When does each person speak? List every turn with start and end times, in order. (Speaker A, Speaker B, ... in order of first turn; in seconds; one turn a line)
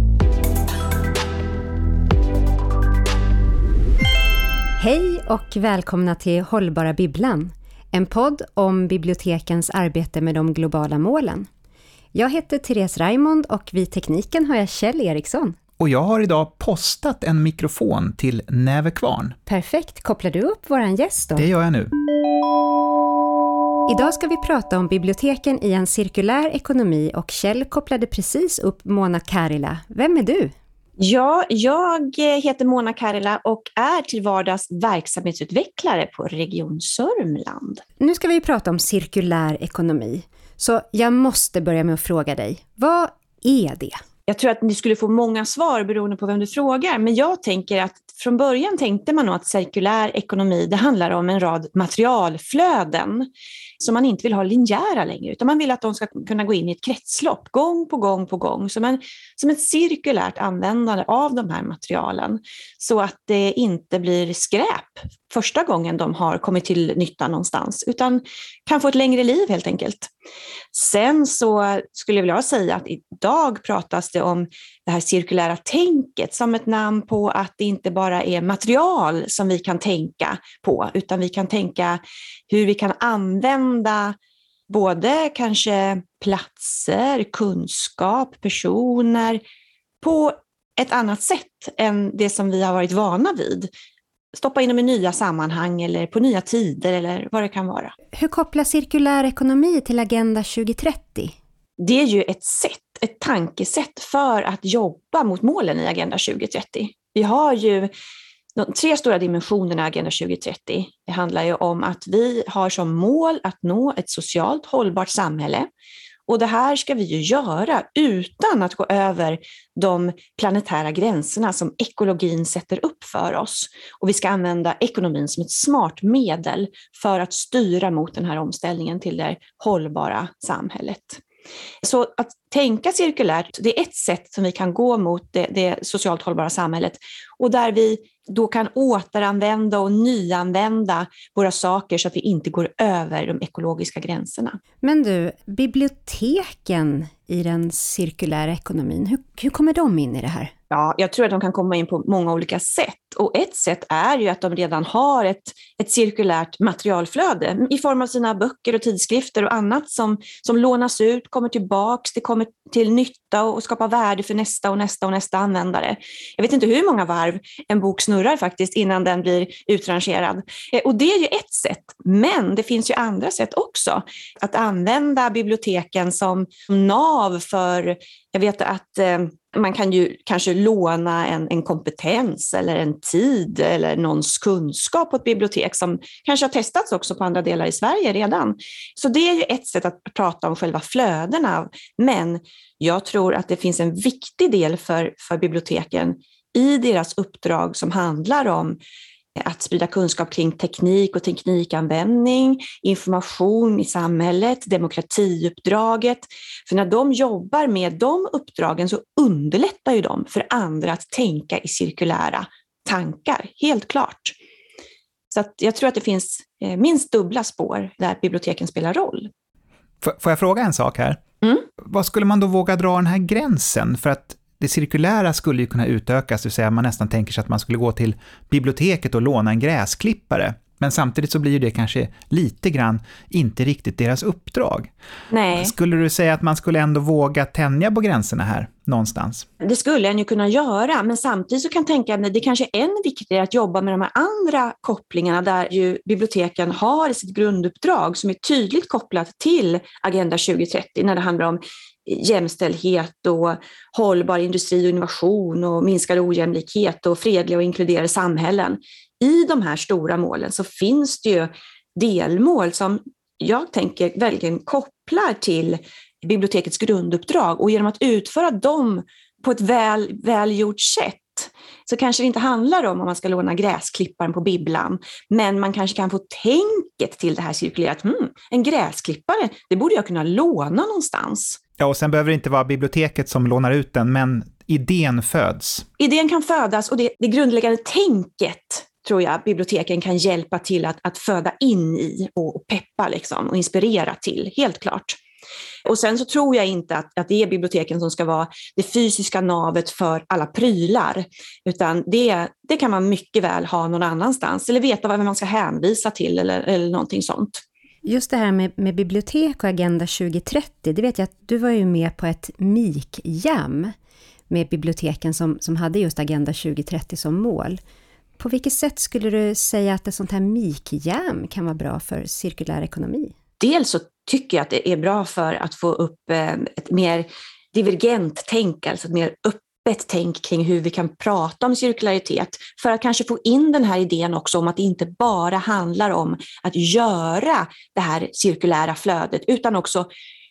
Speaker A: 4.8-11.5
Speaker A: 12.1-15.6
Speaker B: 15.8-19.4
Speaker A: 19.5-21.5
Speaker B: 21.4-21.9
Speaker A: 23.9-30.5
Speaker C: 31.0-37.8
Speaker A: 38.0-44.0
Speaker C: 44.3-53.3
Speaker C: 53.8-70.1
Speaker C: 70.7-84.2
Speaker C: 84.7-89.4
Speaker C: 90.0-93.7
Speaker C: 94.3-97.9
Speaker A: 98.1-101.3
Speaker C: 101.8-107.9
Speaker C: 108.6-115.7
Speaker C: 116.3-131.2
Speaker C: 131.8-144.6
Speaker A: 144.8-150.5
Speaker C: 150.7-198.8
Speaker C: 199.4-214.4
Speaker C: 215.3-219.3
Speaker B: 220.0-221.2
Speaker B: 221.8-234.9
Speaker C: 235.3-235.7
Speaker B: 235.6-239.5
Speaker C: 239.6-281.6
Speaker B: 281.8-285.9
Speaker C: 286.0-295.2
Speaker C: 295.9-307.6
Speaker A: 308.1-313.9
Speaker A: 314.5-317.8
Speaker A: 318.4-323.3
Speaker C: 323.6-340.1